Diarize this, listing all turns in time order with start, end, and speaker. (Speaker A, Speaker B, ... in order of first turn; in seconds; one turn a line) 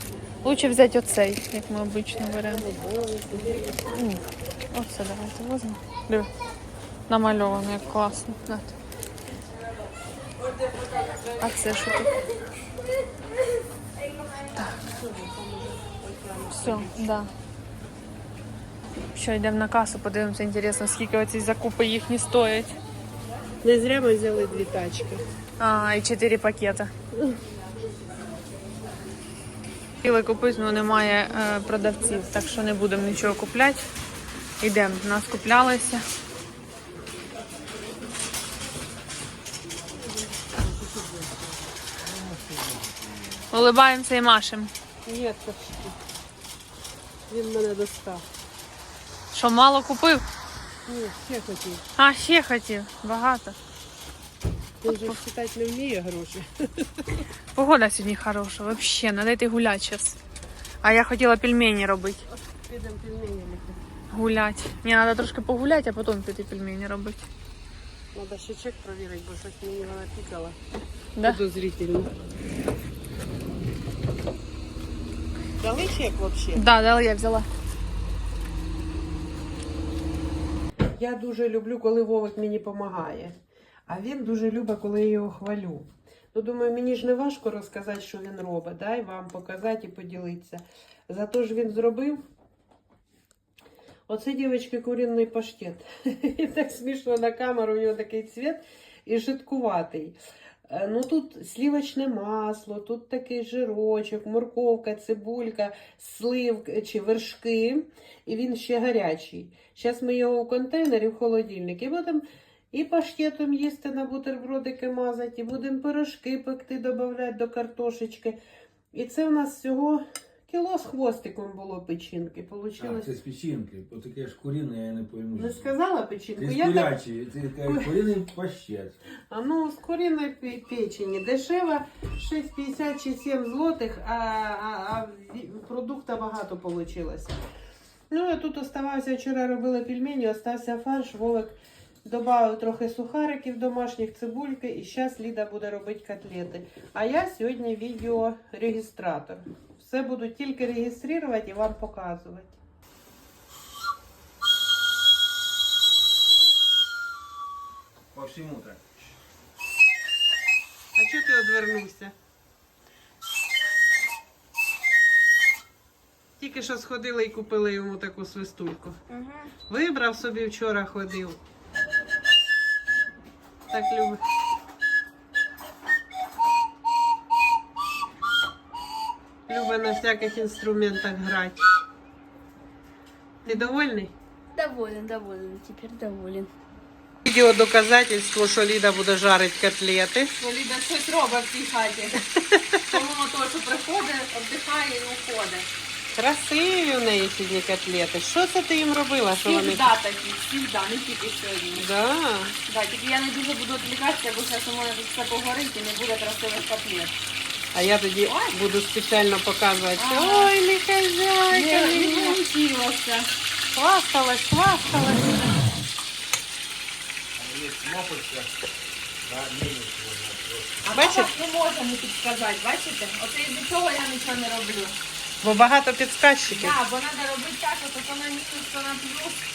Speaker A: 0.4-2.6
Speaker B: 2.5-4.0
Speaker A: 3.9-6.3
Speaker A: 7.1-8.7
Speaker A: 11.4-12.2
Speaker B: 14.8-17.1
Speaker A: 16.5-17.3
Speaker A: 19.1-22.8
Speaker B: 23.6-25.2
Speaker A: 25.6-26.9
Speaker A: 30.0-33.9
Speaker A: 34.6-36.0
Speaker B: 40.2-41.7
Speaker C: 42.0-43.5
Speaker A: 43.5-44.7
Speaker B: 45.0-46.0
Speaker B: 47.3-48.2
Speaker A: 49.3-50.2
Speaker B: 50.9-51.8
Speaker A: 52.0-53.5
Speaker B: 54.8-57.2
Speaker A: 54.9-55.2
Speaker A: 57.5-60.2
Speaker A: 60.8-62.2
Speaker B: 62.3-63.8
Speaker A: 64.1-67.3
Speaker B: 68.1-70.6
Speaker B: 71.2-72.1
Speaker B: 75.6-76.7
Speaker A: 76.5-77.5
Speaker B: 81.0-83.3
Speaker B: 83.9-92.2
Speaker B: 94.1-100.2
Speaker B: 100.7-118.4
Speaker B: 118.9-123.1
Speaker C: 122.8-125.7
Speaker B: 125.3-127.0
Speaker C: 126.3-129.0
Speaker B: 127.7-127.9
Speaker B: 129.3-137.4
Speaker B: 138.1-152.5
Speaker C: 158.1-159.2
Speaker B: 160.9-162.1
Speaker B: 166.4-169.0
Speaker A: 169.1-169.4
Speaker B: 169.7-171.4
Speaker B: 173.7-174.2
Speaker B: 179.5-181.6
Speaker B: 183.4-184.1
Speaker A: 184.5-186.5
Speaker B: 187.2-190.4
Speaker A: 190.4-192.2
Speaker B: 192.3-192.9
Speaker A: 192.9-195.7
Speaker B: 196.1-199.9
Speaker A: 199.3-201.9
Speaker B: 201.8-202.6
Speaker A: 202.7-207.1
Speaker B: 207.7-212.4
Speaker A: 208.3-208.5
Speaker A: 210.0-210.5
Speaker A: 211.5-213.3
Speaker B: 213.7-215.6
Speaker C: 217.3-218.5
Speaker C: 219.2-220.8
Speaker A: 220.8-224.9
Speaker B: 220.9-221.3
Speaker B: 225.4-226.7
Speaker A: 226.4-229.4